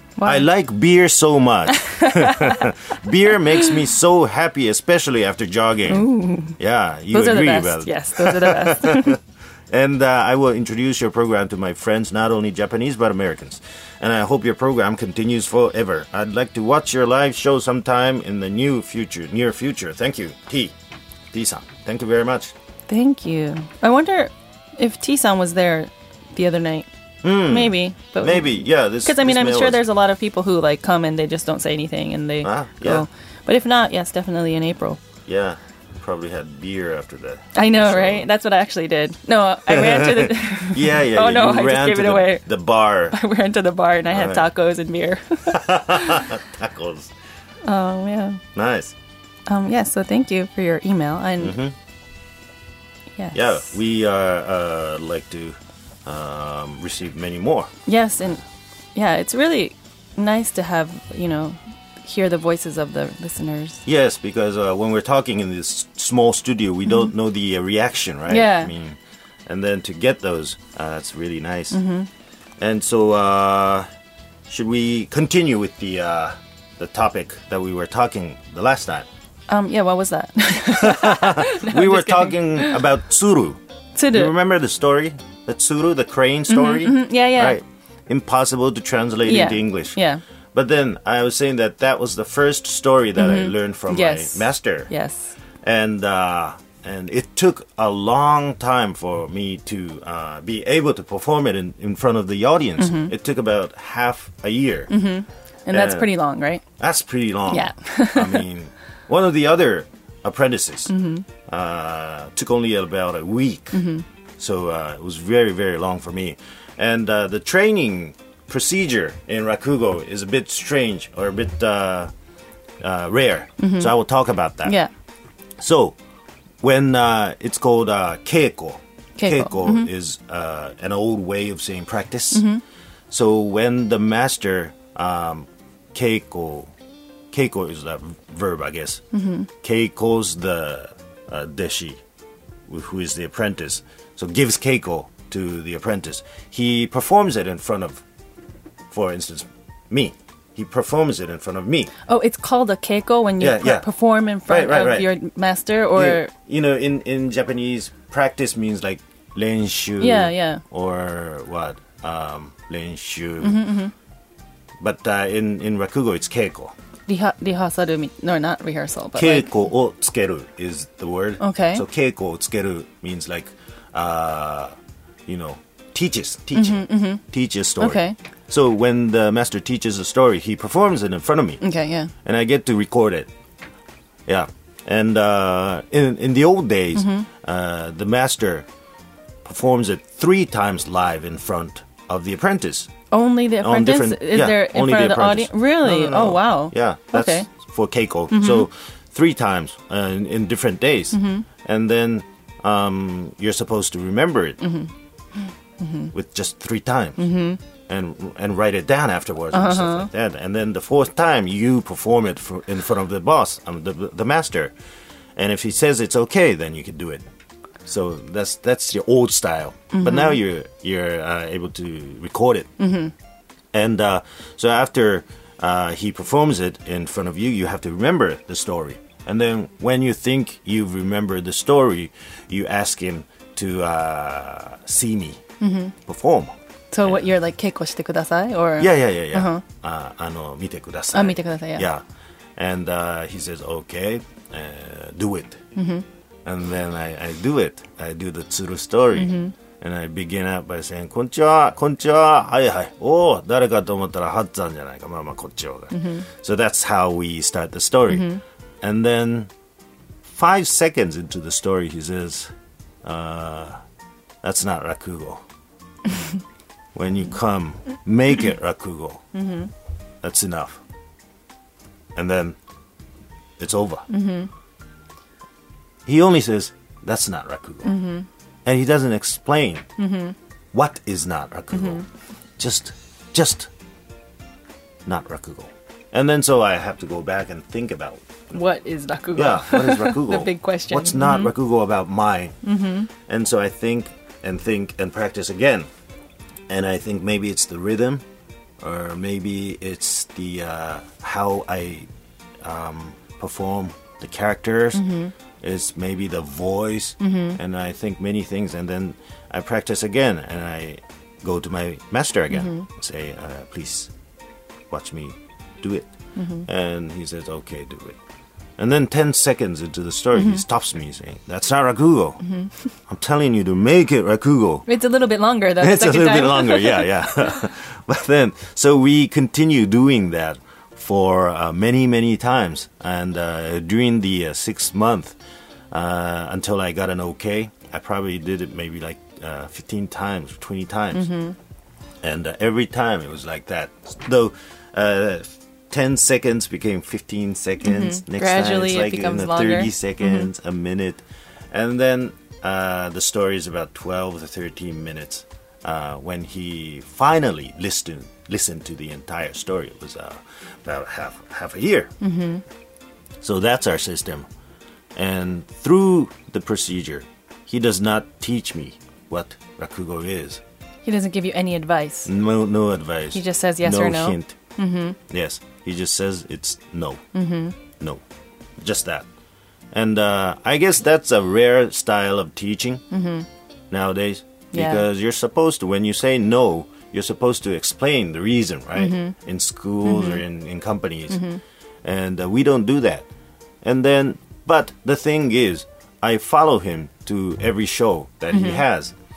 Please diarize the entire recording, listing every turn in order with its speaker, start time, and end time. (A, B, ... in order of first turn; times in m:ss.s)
0:00.2-0:00.5 A
0:00.2-0:06.1 B
0:01.7-0:02.7 A
0:03.3-0:03.8 A
0:05.9-0:06.6 A
0:06.6-0:20.7 B
0:07.1-0:09.2 A
0:21.3-0:22.5 B
0:22.9-0:26.9 A
0:27.2-0:29.8 B
0:27.4-0:35.0 A
0:32.4-0:33.0 B
0:35.2-0:38.3 B
0:37.5-0:42.4 A
0:39.7-0:43.2 B
0:43.1-0:46.3 A
0:44.1-0:44.5 B
0:45.5-0:47.1 B
0:47.6-0:48.4 A
0:48.5-0:48.9 B
0:49.5-0:51.6 A
0:51.4-0:51.7 B
0:53.2-0:53.7 A
0:53.3-0:57.7 B
0:57.9-0:58.4 A
0:58.9-1:03.8 A
1:03.8-1:11.8 B
1:08.3-1:08.7 A
1:11.7-1:12.1 A
1:12.6-1:13.8 B
1:14.5-1:19.1 B
1:19.5-1:22.8 A
1:20.7-1:23.6 B
1:24.0-1:24.3 A
1:24.1-1:30.0 B
1:26.5-1:27.6 A
1:29.2-1:30.2 A
1:30.5-1:34.9 B
1:33.2-1:35.3 A
1:35.6-1:44.9 B
1:42.8-1:43.1 A
1:44.9-1:46.6 A
1:45.7-1:46.1 B
1:46.8-1:50.9 B
1:47.5-1:48.4 A
1:50.9-1:51.2 A
1:51.5-1:53.8 B
1:53.7-1:54.0 A
1:54.4-2:02.1 B
2:02.8-2:04.8 B
2:03.6-2:03.9 A
2:05.6-2:06.0 B
2:06.6-2:12.4 B
2:09.2-2:09.9 A
2:12.3-2:12.6 A
2:13.1-2:16.7 B
2:17.3-2:19.0 B
2:19.1-2:19.5 A
2:19.6-2:22.0 B
2:22.7-2:28.0 B
2:28.9-2:31.9 B
2:32.1-2:36.3 A
2:33.4-2:33.8 B
2:34.5-2:35.1 B
2:35.9-2:43.6 B
2:40.0-2:40.6 A
2:43.4-2:43.9 A
2:44.8-2:46.7 B
2:47.1-2:49.5 A
2:49.1-2:54.7 B
2:51.4-2:51.8 A
2:55.3-3:01.6 B
2:56.5-2:57.2 A
2:57.8-2:58.2 A
3:01.6-3:02.1 A
3:02.2-3:03.3 B
3:04.2-3:08.7 B
3:06.9-3:07.3 A
3:09.4-3:12.9 B
3:13.1-3:17.5 A
3:13.6-3:24.6 B
3:18.3-3:18.7 A
3:21.1-3:21.4 A
3:24.6-3:26.1 A
3:26.1-3:27.2 B
3:27.2-3:27.6 A
3:27.9-3:34.7 B
3:29.5-3:30.1 A
3:35.4-3:37.2 B
3:37.8-3:42.7 B
3:39.9-3:40.4 A
3:42.8-3:43.1 A
3:43.7-3:55.4 B
3:55.6-3:55.9 A
3:56.0-3:56.5 B
3:56.9-3:59.6 A
3:58.8-4:02.0 B
4:01.1-4:01.9 A
4:02.6-4:05.6 B
4:05.7-4:06.0 A
4:06.4-4:18.3 B
4:09.1-4:09.5 A
4:15.9-4:16.2 A
4:18.1-4:18.4 A
4:18.8-4:19.5 B
4:20.2-4:22.5 B
4:23.0-4:23.8 B
4:24.4-4:25.4 B
4:26.9-4:29.2 B
4:29.3-4:29.7 A
4:30.2-4:30.8 B
4:32.1-4:32.6 B
4:33.6-4:34.0 B
4:34.1-4:34.5 A
4:36.0-4:37.9 B
4:37.8-4:38.3 A
4:38.6-4:39.8 B
4:40.0-4:40.4 A
4:40.7-4:42.0 B
4:41.7-4:42.0 A
4:42.6-4:43.7 B
4:45.0-4:48.5 B
4:48.5-4:51.5 A
4:49.3-4:52.6 B
4:52.6-4:53.1 A
4:53.3-4:55.9 B
4:56.7-4:58.2 B
4:58.8-5:02.1 B
5:02.6-5:05.0 B
5:04.9-5:05.3 A
5:05.6-5:14.1 B
5:07.2-5:07.6 A
5:12.5-5:12.8 A
5:14.9-5:16.1 B
5:16.4-5:16.7 A
5:16.6-5:18.2 B
5:18.8-5:22.4 B
5:20.4-5:20.6 A
5:22.4-5:22.7 A
5:23.1-5:24.8 B
5:24.9-5:27.6 A
5:25.8-5:35.4 B
5:35.9-5:41.3 B
5:41.1-5:41.6 A
5:42.2-6:02.1 B
5:47.8-5:50.5 A
6:02.2-6:02.6 A
6:03.4-6:04.4 B
6:05.1-6:10.6 B
6:11.0-6:12.3 A
6:12.2-6:14.5 B
6:13.3-6:15.2 A
6:15.3-6:17.2 B
6:17.3-6:17.8 A
6:18.8-6:19.3 B
6:19.9-6:23.0 B
6:23.1-6:23.5 A
6:23.9-6:31.4 B
6:24.7-6:25.0 A
6:29.0-6:29.3 A
6:30.0-6:30.4 A
6:31.3-6:31.6 A
6:32.0-6:33.3 B
6:33.8-6:39.1 B
6:38.5-6:38.8 A